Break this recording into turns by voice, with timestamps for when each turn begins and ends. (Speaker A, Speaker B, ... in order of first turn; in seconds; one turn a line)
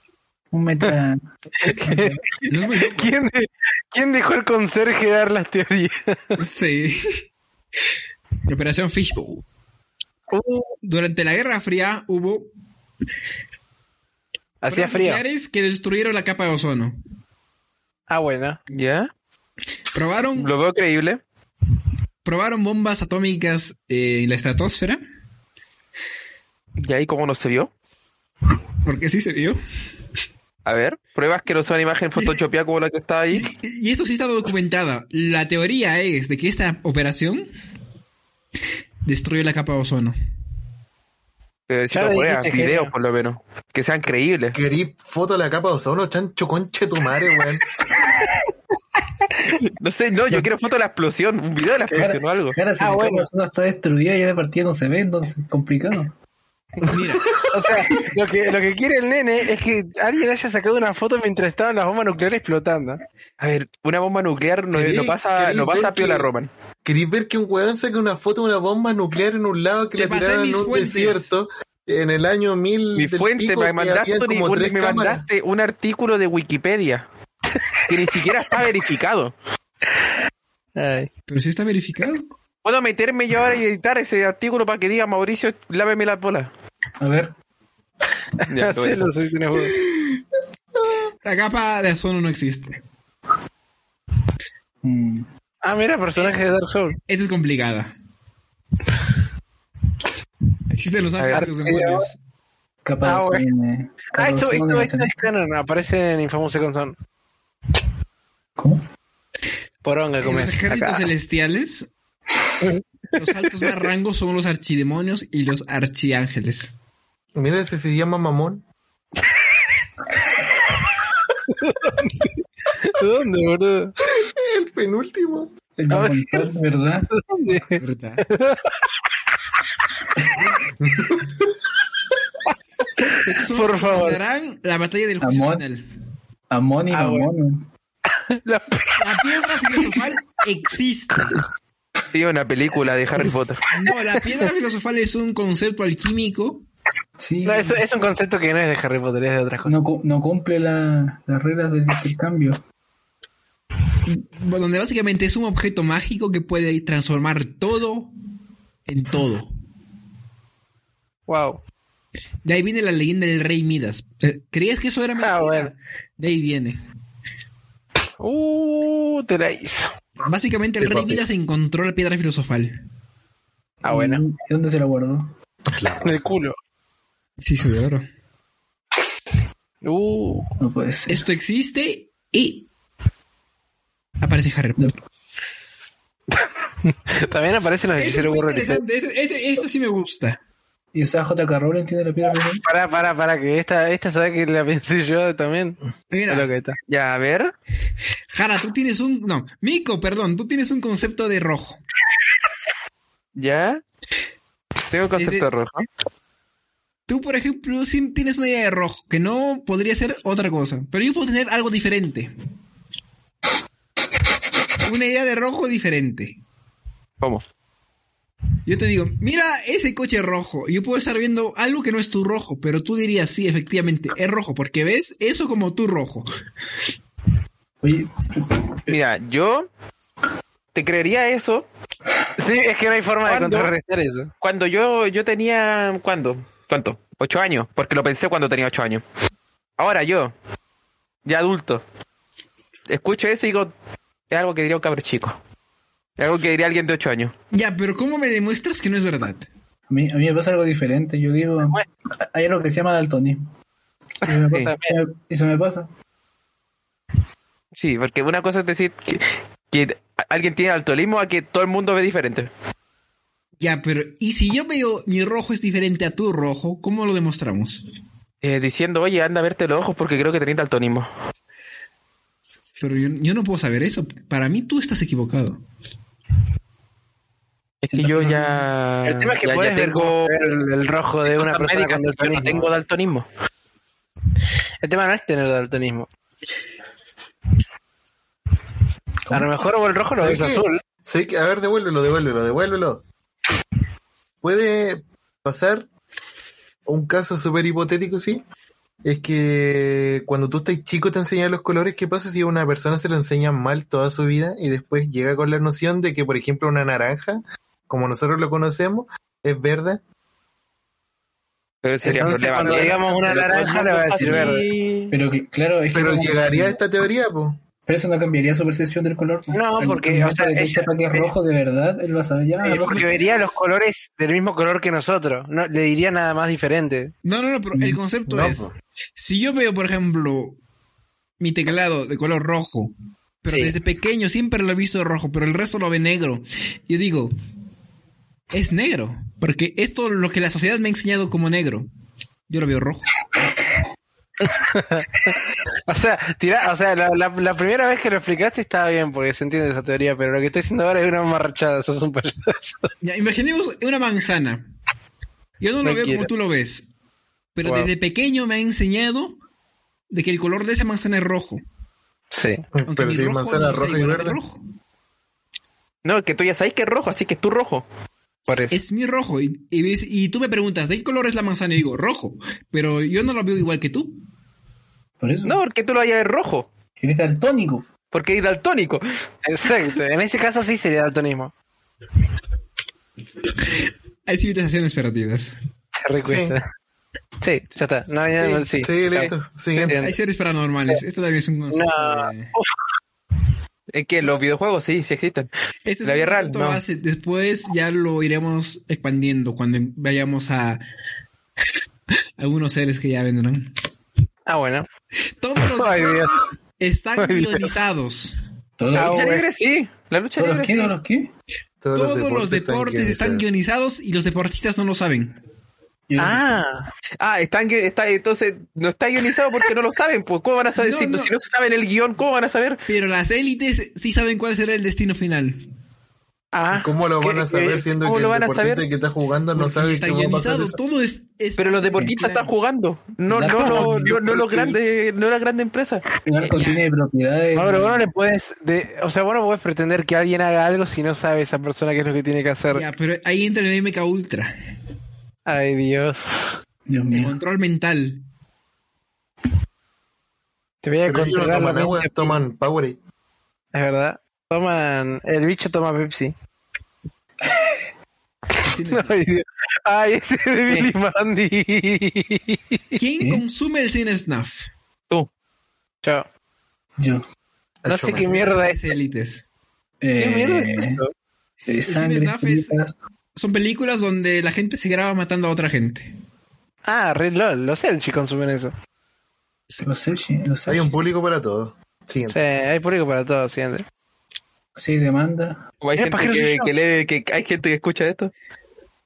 Speaker A: 0.5-2.2
Speaker B: 1.7-6.4
Speaker C: 2.5-3.1
Speaker C: 6.4-7.2
Speaker C: 8.5-9.4
Speaker B: 10.3-10.7
Speaker C: 10.8-12.5
Speaker B: 14.6-15.2
Speaker C: 14.7-17.0
Speaker B: 18.1-18.6
Speaker D: 18.7-19.1
Speaker C: 19.9-20.5
Speaker D: 20.3-21.2
Speaker C: 22.2-25.0
Speaker D: 26.8-27.7
Speaker C: 28.9-29.6
Speaker D: 30.6-33.5
Speaker C: 32.2-32.4
Speaker C: 33.3-37.5
Speaker C: 39.0-40.2
Speaker D: 41.7-44.6
Speaker B: 41.9-42.9
Speaker E: 44.5-47.7
Speaker D: 49.8-52.6
Speaker A: 51.9-56.1
Speaker B: 52.8-53.3
Speaker C: 56.8-57.3
Speaker B: 57.4-63.0
Speaker D: 63.4-66.5
Speaker E: 64.7-66.3
Speaker E: 66.8-75.3
Speaker C: 70.0-71.3
Speaker D: 73.0-77.1
Speaker D: 77.9-79.3
Speaker B: 80.8-81.1
Speaker C: 81.3-82.2
Speaker D: 82.6-86.5
Speaker A: 87.0-87.3
Speaker D: 88.5-89.1
Speaker B: 88.5-89.8
Speaker C: 91.2-92.8
Speaker A: 94.8-95.3
Speaker B: 95.6-97.0
Speaker C: 97.1-97.9
Speaker C: 100.7-102.2
Speaker D: 101.2-101.5
Speaker B: 101.3-102.1
Speaker A: 102.8-105.1
Speaker B: 103.0-103.5
Speaker B: 104.1-107.0
Speaker A: 108.6-108.8
Speaker B: 109.8-111.1
Speaker C: 110.2-111.9
Speaker B: 112.6-113.7
Speaker C: 113.2-116.7
Speaker E: 117.3-118.6
Speaker B: 121.5-124.0
Speaker E: 124.2-125.5
Speaker A: 125.8-127.1
Speaker B: 125.9-126.5
Speaker B: 127.2-128.7
Speaker C: 127.8-128.2
Speaker C: 133.2-135.8
Speaker B: 133.5-134.2
Speaker A: 135.2-135.6
Speaker A: 136.5-137.7
Speaker B: 136.9-137.3
Speaker B: 138.3-139.0
Speaker C: 139.0-141.3
Speaker D: 142.1-143.6
Speaker C: 143.7-146.7
Speaker A: 147.2-147.8
Speaker B: 147.4-149.8
Speaker A: 149.7-152.6
Speaker C: 154.1-158.1
Speaker C: 158.9-159.5
Speaker B: 161.3-161.6
Speaker C: 162.4-166.8
Speaker B: 165.2-165.7
Speaker B: 168.2-169.9
Speaker C: 170.2-172.8
Speaker E: 170.8-171.2
Speaker B: 173.8-174.2
Speaker A: 173.9-175.3
Speaker E: 175.7-176.3
Speaker B: 176.0-176.6
Speaker C: 177.4-178.1
Speaker B: 179.8-180.5
Speaker A: 180.6-181.3
Speaker C: 181.1-182.7
Speaker C: 184.2-184.9
Speaker B: 186.3-188.8
Speaker C: 188.0-190.4
Speaker A: 190.9-192.6
Speaker B: 192.6-196.8
Speaker C: 196.1-196.5
Speaker D: 196.9-197.5
Speaker C: 198.3-201.8
Speaker D: 203.3-203.8
Speaker D: 204.9-205.9
Speaker C: 205.2-205.5
Speaker C: 207.1-212.3
Speaker C: 214.8-216.4
Speaker D: 217.2-217.4
Speaker C: 218.7-226.3
Speaker A: 227.8-229.0
Speaker D: 228.9-229.7
Speaker D: 230.7-231.7
Speaker B: 232.4-234.3
Speaker D: 233.3-233.7
Speaker D: 234.4-239.0
Speaker D: 239.8-240.3
Speaker D: 241.2-241.8
Speaker D: 242.9-243.7
Speaker D: 244.3-245.4
Speaker D: 246.2-247.3
Speaker C: 247.5-249.5
Speaker A: 249.9-253.5
Speaker B: 254.2-255.0
Speaker A: 254.2-255.9
Speaker D: 257.8-262.5
Speaker C: 263.6-267.8
Speaker D: 268.4-271.1
Speaker C: 272.8-275.6
Speaker D: 277.8-280.4
Speaker A: 277.9-278.7
Speaker B: 279.0-282.7
Speaker D: 281.3-283.3
Speaker B: 284.8-286.1
Speaker B: 289.3-290.8
Speaker E: 290.1-293.0
Speaker E: 294.4-295.9
Speaker E: 296.9-298.4
Speaker E: 299.0-310.0
Speaker D: 311.8-315.1
Speaker B: 312.0-314.6
Speaker A: 314.2-316.8
Speaker E: 315.9-317.6
Speaker A: 317.8-323.2
Speaker B: 319.5-321.3
Speaker B: 322.6-327.1
Speaker C: 327.2-330.6
Speaker E: 328.3-328.7
Speaker C: 331.4-337.3
Speaker C: 338.5-341.9
Speaker C: 342.5-343.1
Speaker B: 344.4-352.9
Speaker C: 353.0-354.7
Speaker C: 355.6-356.9
Speaker B: 355.8-356.3
Speaker C: 357.6-359.4
Speaker B: 357.6-357.9
Speaker C: 360.1-361.6
Speaker B: 362.3-362.7
Speaker E: 362.7-364.4
Speaker C: 362.9-364.6
Speaker D: 366.0-367.9
Speaker B: 368.5-368.8
Speaker C: 368.7-374.2
Speaker A: 375.2-375.6
Speaker D: 375.4-376.7
Speaker A: 377.0-377.9
Speaker D: 378.1-379.0
Speaker B: 379.5-381.5
Speaker C: 384.3-385.5
Speaker B: 386.0-386.6
Speaker E: 386.2-386.6
Speaker B: 387.4-390.1
Speaker E: 388.8-390.0
Speaker C: 389.8-392.5
Speaker B: 391.7-392.7
Speaker D: 393.9-395.5
Speaker C: 395.9-400.8
Speaker D: 396.0-396.8
Speaker C: 402.4-403.7
Speaker B: 404.5-404.9
Speaker C: 405.4-408.4
Speaker B: 405.6-406.3
Speaker B: 407.2-407.7
Speaker A: 408.8-409.3
Speaker B: 408.9-409.5
Speaker D: 409.0-410.9
Speaker A: 410.4-411.3
Speaker E: 411.8-413.5
Speaker C: 411.9-415.4
Speaker A: 416.1-416.5
Speaker B: 416.2-416.9
Speaker D: 417.2-422.8
Speaker C: 420.8-421.3
Speaker C: 422.9-425.6
Speaker B: 426.5-427.9
Speaker E: 426.7-430.8
Speaker D: 428.0-428.9
Speaker C: 429.5-432.5
Speaker D: 431.6-436.1
Speaker A: 433.3-434.7
Speaker B: 433.4-434.7
Speaker A: 436.2-438.1
Speaker C: 436.4-436.8
Speaker B: 437.5-442.9
Speaker C: 442.7-444.5
Speaker B: 445.5-446.6
Speaker A: 446.9-447.4
Speaker C: 447.1-448.2
Speaker B: 450.8-452.4
Speaker E: 451.0-453.0
Speaker B: 453.7-456.4
Speaker B: 458.6-463.0
Speaker C: 458.6-459.2
Speaker C: 463.0-464.7
Speaker A: 467.0-467.2
Speaker E: 467.8-468.4
Speaker B: 467.9-468.8
Speaker C: 468.4-469.5
Speaker A: 470.0-471.0
Speaker B: 470.2-471.1
Speaker A: 471.7-472.9
Speaker C: 471.9-472.8
Speaker C: 473.4-476.1
Speaker B: 476.9-478.8
Speaker A: 479.8-481.0
Speaker E: 480.7-482.4
Speaker B: 482.3-483.9
Speaker A: 484.8-485.6
Speaker D: 485.8-488.3
Speaker B: 486.0-486.7